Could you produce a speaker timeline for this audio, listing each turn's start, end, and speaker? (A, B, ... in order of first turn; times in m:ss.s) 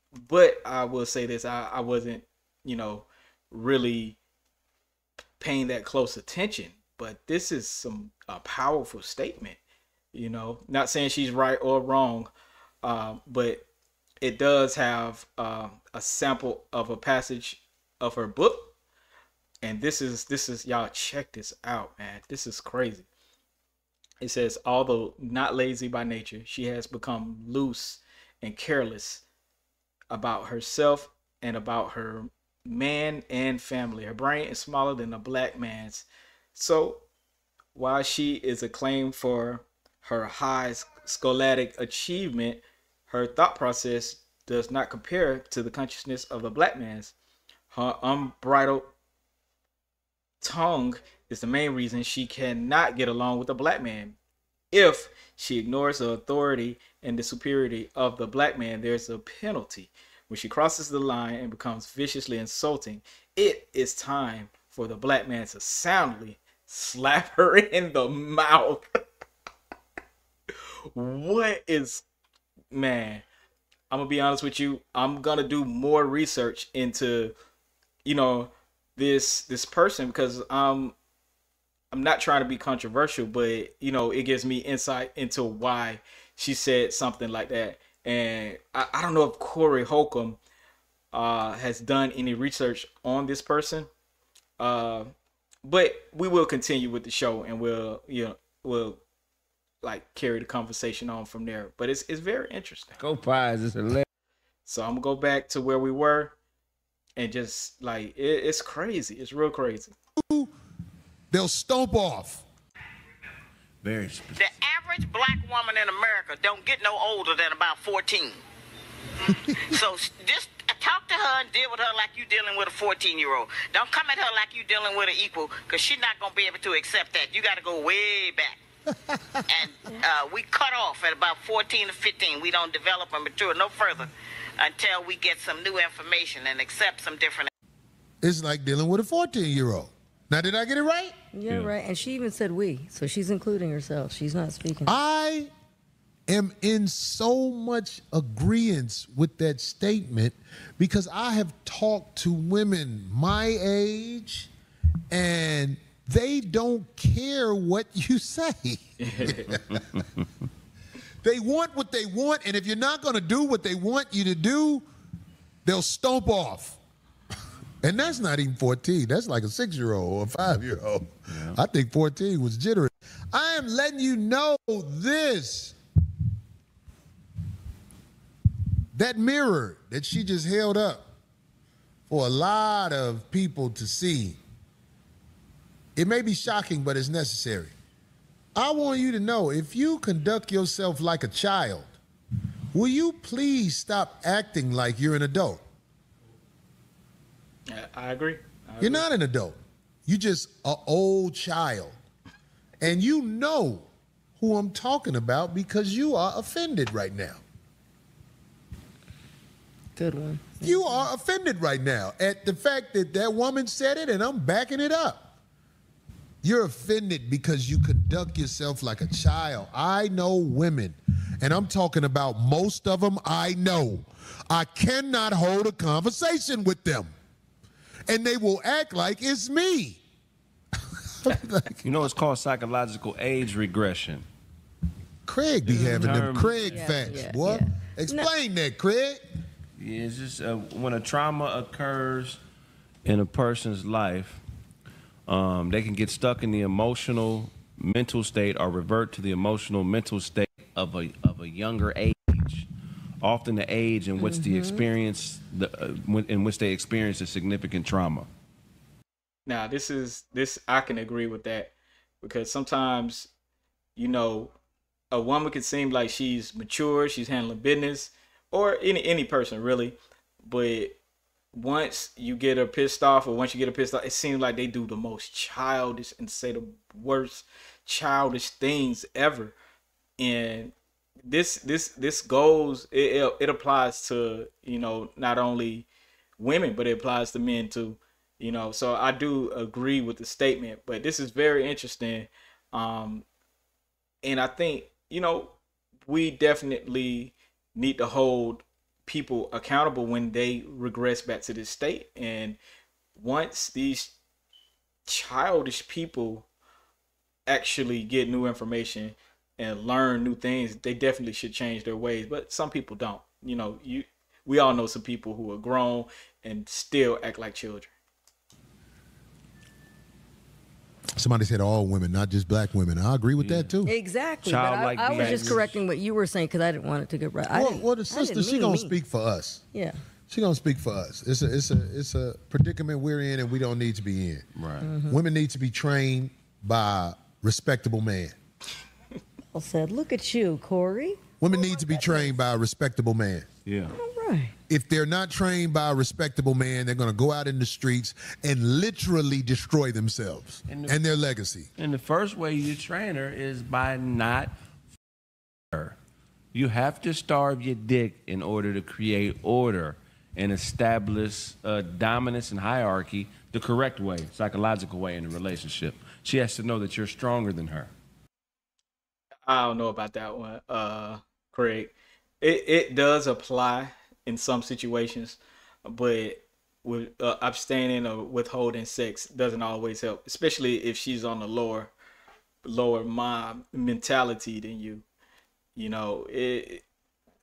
0:00.2-0:04.2 A
0:05.4-0:09.6 A
0:10.1-0:12.3 A
0:12.8-0:13.6 A
0:14.2-0:18.7 A
0:19.6-0:23.1 A
0:24.2-0:29.2 A
0:30.1-0:37.0 A
0:37.7-0:47.1 A
0:47.7-0:48.9 A
0:50.4-0:54.2 A
0:54.7-1:08.9 A
1:10.9-1:12.0 A
1:12.7-1:13.2 A
1:13.9-1:17.4 A
1:18.0-1:21.0 A
1:21.9-1:30.4 A
1:31.1-1:33.9 A
1:34.6-1:35.1 A
1:35.6-1:39.0 A
1:39.8-1:43.0 A
1:43.0-1:44.1 B
1:44.6-1:46.4 A
1:47.2-1:49.9 A
1:50.2-1:50.5 C
1:51.3-1:52.4 C
1:53.8-1:54.6 B
1:54.4-1:58.4 D
1:59.3-1:59.8 C
1:59.6-2:08.6 D
2:08.9-2:09.5 C
2:09.5-2:17.5 D
2:18.2-2:21.1 C
2:21.3-2:24.9 E
2:21.5-2:21.7 B
2:24.9-2:25.5 C
2:26.3-2:34.5 C
2:35.1-2:39.8 C
2:39.0-2:39.6 A
2:39.8-2:40.1 B
2:41.2-2:44.8 C
2:45.6-2:46.8 C
2:47.8-2:55.8 C
2:51.3-2:51.6 B
2:58.9-3:01.1 C
3:02.1-3:04.4 C
3:06.0-3:07.8 C
3:08.6-3:11.9 C
3:12.7-3:15.6 C
3:17.7-3:19.1 A
3:18.8-3:22.0 C
3:22.8-3:23.9 C
3:24.4-3:27.4 C
3:29.9-3:31.1 E
3:30.6-3:35.3 C
3:36.4-3:47.1 C
3:48.1-3:50.0 C
3:51.2-3:51.7 C
3:51.8-3:54.2 B
3:55.2-3:59.2 C
3:55.6-3:57.0 B
3:55.8-3:56.1 E
3:56.7-3:58.3 E
3:59.8-4:02.4 B
4:03.0-4:04.4 B
4:05.3-4:12.7 B
4:13.2-4:18.3 B
4:14.2-4:14.9 E
4:19.4-4:23.3 A
4:24.0-4:24.5 A
4:25.1-4:31.0 A
4:31.5-4:39.6 A
4:40.2-4:40.7 A
4:41.3-4:45.9 A
4:46.4-4:53.2 A
4:54.2-4:55.6 A
4:56.1-5:02.6 A
5:03.1-5:04.1 A
5:05.1-5:06.5 A
5:07.5-5:17.9 A
5:21.2-5:23.9 C
5:23.4-5:23.8 B
5:23.8-5:29.0 E
5:24.4-5:25.8 B
5:27.5-5:29.6 C
5:29.7-5:30.0 E
5:30.3-5:34.5 C
5:34.6-5:34.9 B
5:34.8-5:35.2 E
5:35.1-5:38.4 C
5:39.5-5:42.4 E
5:41.4-5:43.5 C
5:43.6-5:44.0 B
5:43.9-5:44.5 E
5:44.7-5:51.7 C
5:50.7-5:51.0 B
5:51.8-5:54.5 B
5:56.5-6:07.9 B
6:09.5-6:21.9 A
6:22.6-6:25.0 A
6:25.8-6:26.8 A